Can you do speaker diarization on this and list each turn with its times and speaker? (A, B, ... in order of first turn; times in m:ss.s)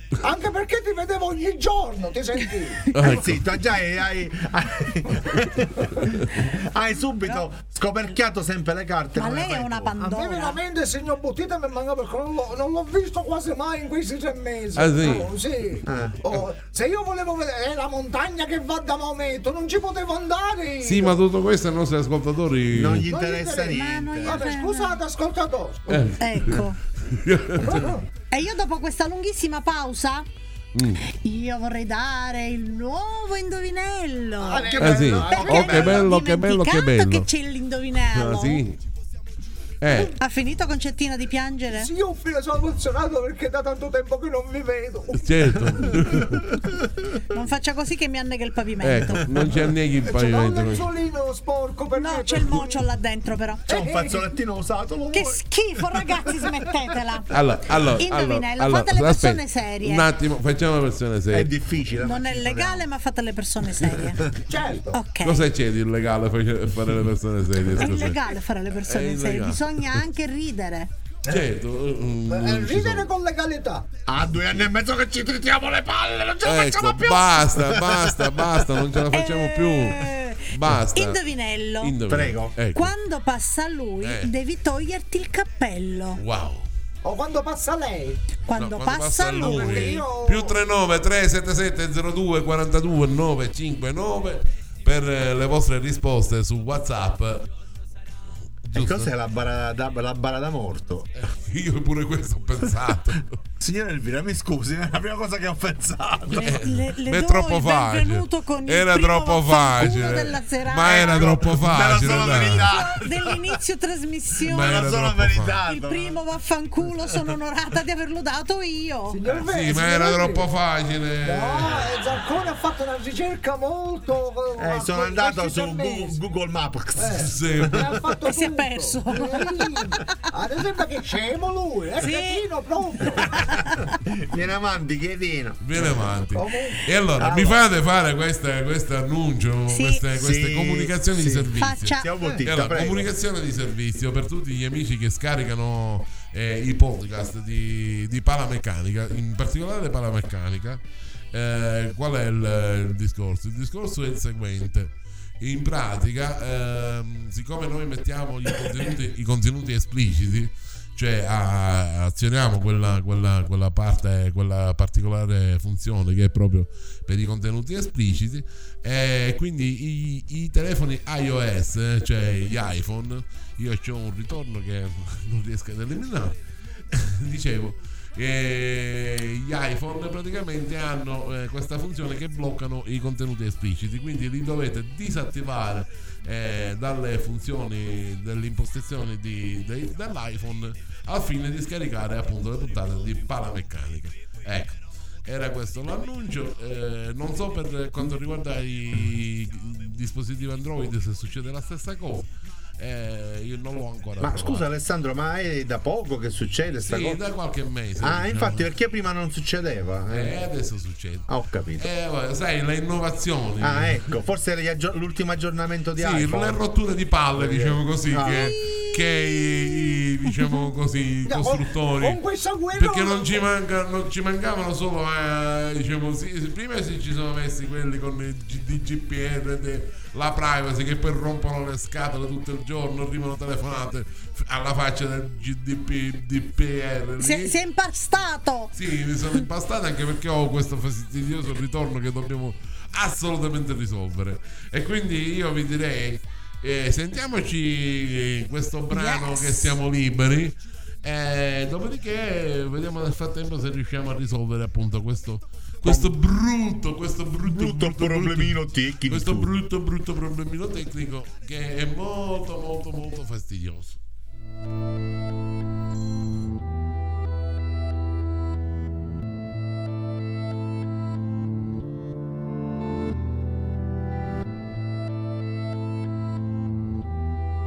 0:00.2-0:03.1 A
0:02.9-0:03.4 B
0:02.9-0:10.0 C
0:09.1-0:10.6 D
0:10.0-0:21.2 A
0:14.8-0:15.3 B
0:15.8-0:16.3 C
0:20.8-0:23.1 B
0:22.7-0:24.4 C
0:23.1-0:26.1 A
0:23.7-0:25.0 D
0:25.9-0:27.9 B
0:26.2-0:26.8 D
0:27.6-0:28.0 A
0:28.3-0:30.2 D
0:30.7-0:31.0 B
0:31.0-0:38.6 D
0:34.4-0:36.0 A
0:34.7-0:36.1 C
0:34.8-0:37.3 B
0:38.1-0:38.8 B
0:39.8-0:40.1 B
0:40.2-0:41.9 D
0:41.7-0:45.8 A
0:45.2-0:46.5 B
0:46.0-0:46.7 C
0:47.3-0:49.2 D
0:48.8-0:50.9 B
0:49.3-0:49.6 C
0:50.0-0:52.8 A
0:52.0-0:53.6 D
0:53.7-0:54.2 A
0:53.7-0:56.1 C
0:55.1-0:57.3 D
0:57.3-1:01.5 B
0:58.0-1:00.1 D
1:01.3-1:02.8 C
1:02.0-1:04.2 D
1:03.8-1:04.3 C
1:04.5-1:05.0 A
1:04.9-1:05.5 D
1:05.2-1:08.2 B
1:07.8-1:10.9 D
1:08.7-1:10.0 B
1:11.2-1:13.1 B
1:12.3-1:13.8 A
1:14.0-1:18.7 C
1:16.4-1:21.2 B
1:19.1-1:22.0 D
1:21.8-1:22.9 B
1:22.1-1:22.5 C
1:22.7-1:26.2 D
1:24.0-1:24.3 B
1:26.2-1:26.7 B
1:27.0-1:28.2 A
1:28.4-1:30.0 D
1:28.5-1:37.5 B
1:29.4-1:30.6 A
1:38.6-1:39.1 B
1:38.7-1:41.1 C
1:41.2-1:43.4 B
1:43.6-1:46.6 C
1:46.3-1:51.3 D
1:46.3-1:52.7 B
1:50.8-1:53.6 C
1:52.4-1:54.7 D
1:54.4-1:55.6 B
1:54.5-1:56.2 C
1:55.7-1:59.2 D
1:56.9-1:57.3 C
1:59.1-2:00.5 A
1:59.4-2:02.1 B
2:01.2-2:06.2 A
2:04.6-2:07.9 C
2:07.0-2:13.4 A
2:07.1-2:07.9 B
2:08.2-2:10.2 D
2:12.0-2:12.4 D
2:13.2-2:13.8 D
2:13.4-2:16.0 C
2:15.6-2:30.8 B
2:16.3-2:16.8 A
2:17.2-2:17.6 C
2:19.7-2:20.0 D
2:20.1-2:23.1 C
2:21.5-2:22.4 D
2:31.3-2:56.4 B
2:56.9-3:22.3 B
3:22.8-3:24.6 B
3:24.2-3:27.2 C
3:26.8-3:28.7 B
3:28.0-3:30.4 C
3:30.1-3:34.1 B
3:31.3-3:31.9 C
3:33.6-3:36.6 C
3:36.0-3:42.2 B
3:37.3-3:38.6 C
3:38.3-3:39.0 D
3:41.2-3:43.5 A
3:42.7-3:57.6 B
3:57.2-3:58.7 D
3:58.7-4:24.0 B
4:08.9-4:09.8 D
4:15.8-4:16.1 C
4:17.4-4:19.5 C